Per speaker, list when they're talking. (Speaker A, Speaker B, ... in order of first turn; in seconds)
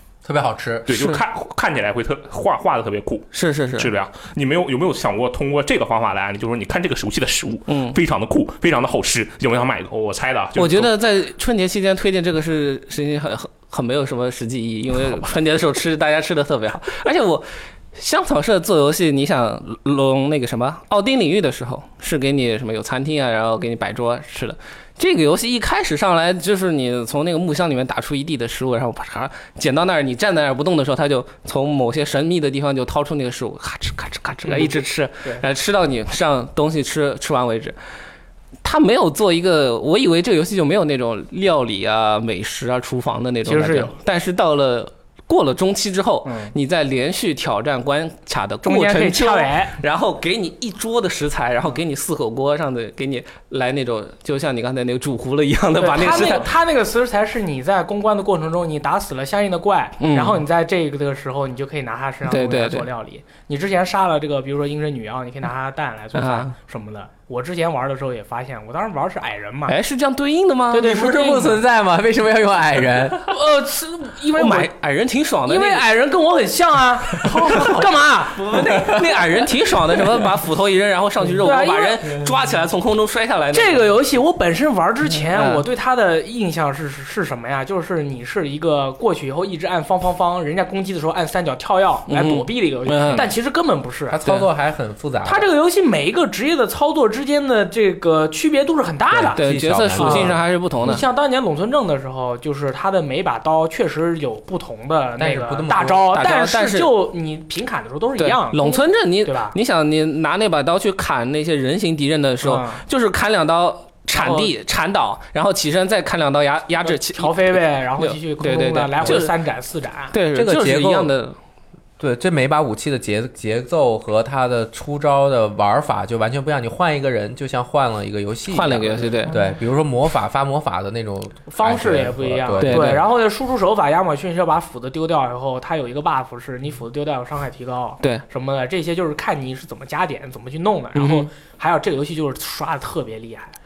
Speaker A: 0.2-1.1, 70.8-73.3, 78.7-79.1, 94.1-95.5, 99.1-100.4, 105.2-106.1, 120.3-121.1, 122.0-133.0
Speaker B: 0.9-10.9
Speaker C: 0.9-1.2, 3.3-3.9, 7.7-8.0, 10.6-37.8, 38.6-56.5, 60.0-60.4, 62.3-62.9, 66.2-66.5, 69.7-70.9, 74.3-75.9, 77.5-83.9, 85.2-85.7, 92.1-93.3, 99.4-101.0, 106.1-107.0, 108.2-119.3, 120.1-121.4, 128.5-129.4, 132.6-133.0, 140.9-141.3
Speaker D: 34.5-35.4, 43.5-44.0, 46.2-46.5, 48.6-49.8, 55.8-69.8, 70.7-71.6, 73.3-74.7, 75.5-79.2, 81.4-82.2, 83.5-94.2, 95.2-99.4, 100.0-109.5, 112.4-112.8, 114.2-114.5, 116.8-120.1, 129.2-129.6, 131.5-143.6